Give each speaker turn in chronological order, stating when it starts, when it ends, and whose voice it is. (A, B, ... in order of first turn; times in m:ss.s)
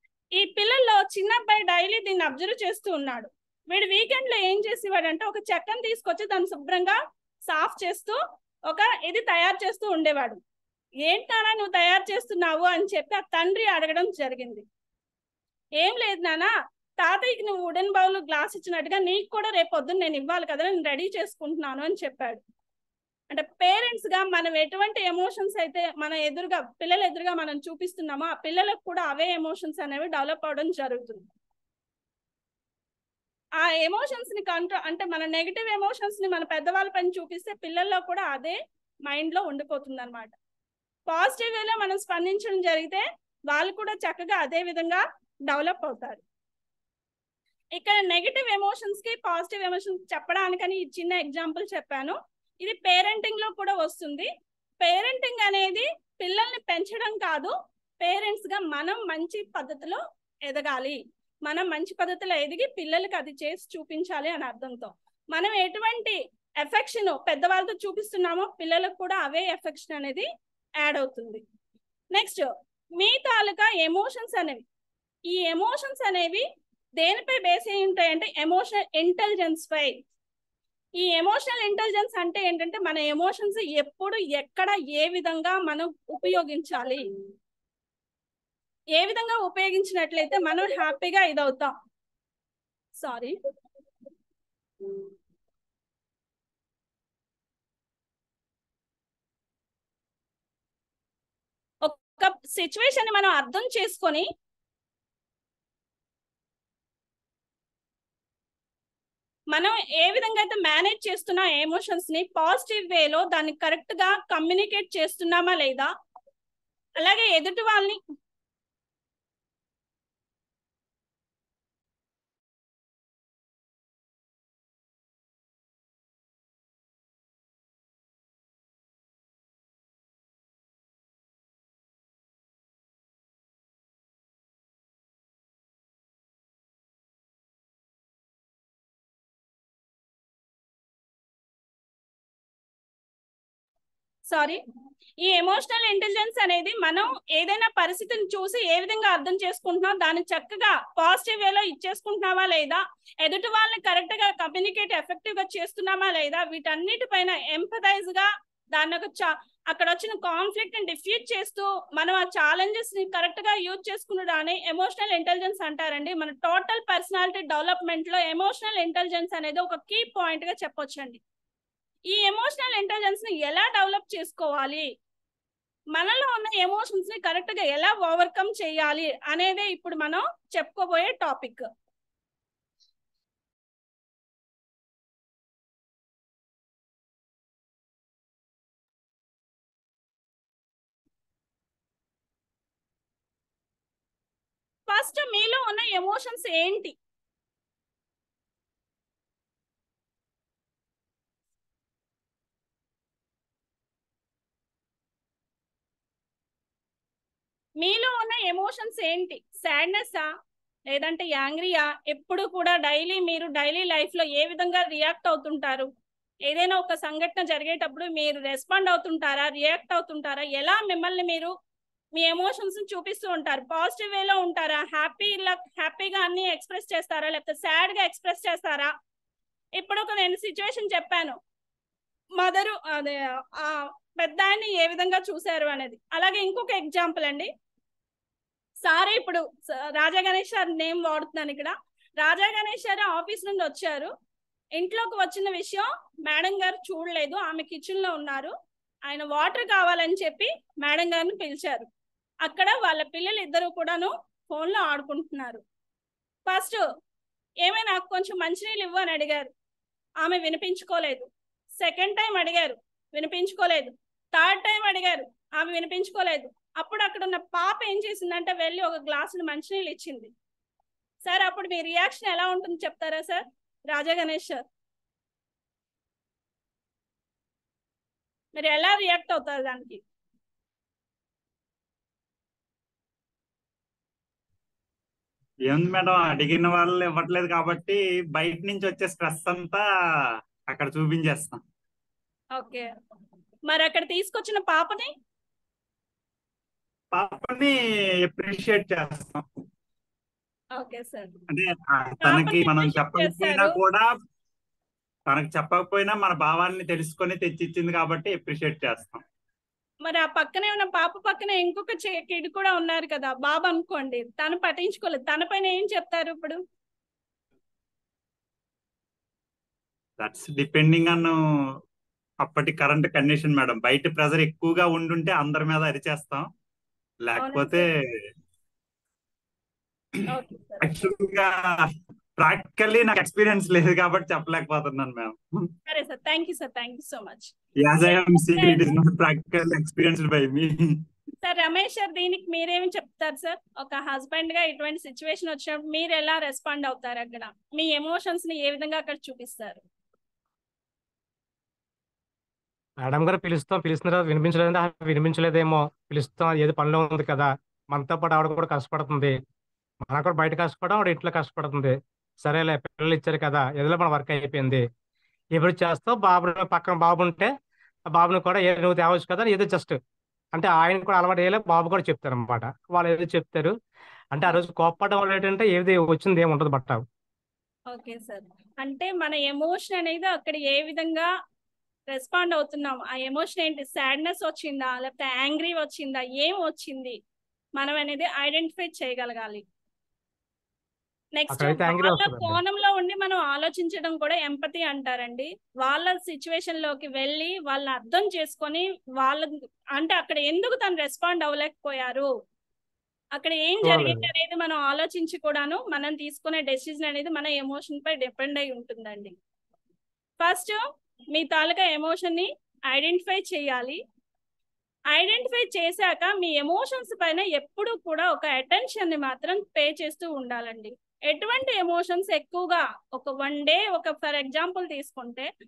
0:00.4-0:07.0 A
0:07.5-0:08.2 A
0:08.7-0:10.4 A
0:11.0-0:14.6 A
0:15.8-0:22.4 A
0:23.3-0:31.2 A
0:33.6-0:40.3 A
0:41.1-0:46.2 A
0:47.8-0:54.3 A
0:54.8-1:10.3 A
1:10.8-1:11.4 A
1:12.1-1:12.5 A
1:13.0-1:14.6 A
1:15.3-1:16.4 A
1:17.0-1:20.0 A
1:21.0-1:27.0 A
1:29.0-1:31.7 A
1:33.0-1:33.4 A
1:41.8-1:44.3 A
1:49.5-1:55.9 A
1:57.0-1:58.0 A
2:24.3-2:24.6 A
2:25.2-2:51.2 A
2:52.1-2:54.9 A
2:55.9-3:01.6 A
3:14.9-3:17.0 A
3:27.8-3:30.3 A
3:30.9-3:35.9 A
3:36.5-3:41.5 A
3:42.2-3:48.9 A
3:49.8-3:51.4 A
3:52.4-3:57.5 A
3:58.8-4:04.1 A
4:04.8-4:08.5 A
4:09.1-4:11.9 A
4:12.4-4:15.6 A
4:16.4-4:16.8 A
4:17.6-4:19.5 A
4:20.2-4:21.3 A
4:21.8-4:30.3 A
4:31.2-4:34.6 A
4:38.6-4:40.0 A
4:45.7-4:49.8 B
4:50.7-4:51.6 B
4:52.6-4:52.9 A
4:53.7-4:55.1 A
4:57.1-4:59.4 B
5:00.8-5:01.4 A
5:01.5-5:04.1 B
5:02.2-5:03.8 A
5:05.3-5:09.2 B
5:10.0-5:16.6 A
5:20.2-5:21.4 B
5:22.4-5:26.5 B
5:27.2-5:28.2 B
5:27.4-5:27.8 A
5:30.3-5:30.9 A
5:30.8-5:35.7 B
5:35.9-5:38.9 A
5:37.8-5:41.0 B
5:41.4-5:49.8 A
5:53.0-5:59.4 C
6:00.1-6:04.8 C
6:05.6-6:07.5 C
6:08.1-6:10.0 C
6:10.5-6:13.7 C
6:14.3-6:17.0 C
6:17.9-6:21.3 A
6:22.1-6:27.2 A
6:27.8-6:29.6 A
6:31.4-6:42.3 A
6:31.5-6:32.6 C
6:43.4-6:49.3 A
6:43.8-6:44.3 C
6:50.4-6:50.8 A
6:51.3-6:54.0 A
6:55.1-7:05.5 A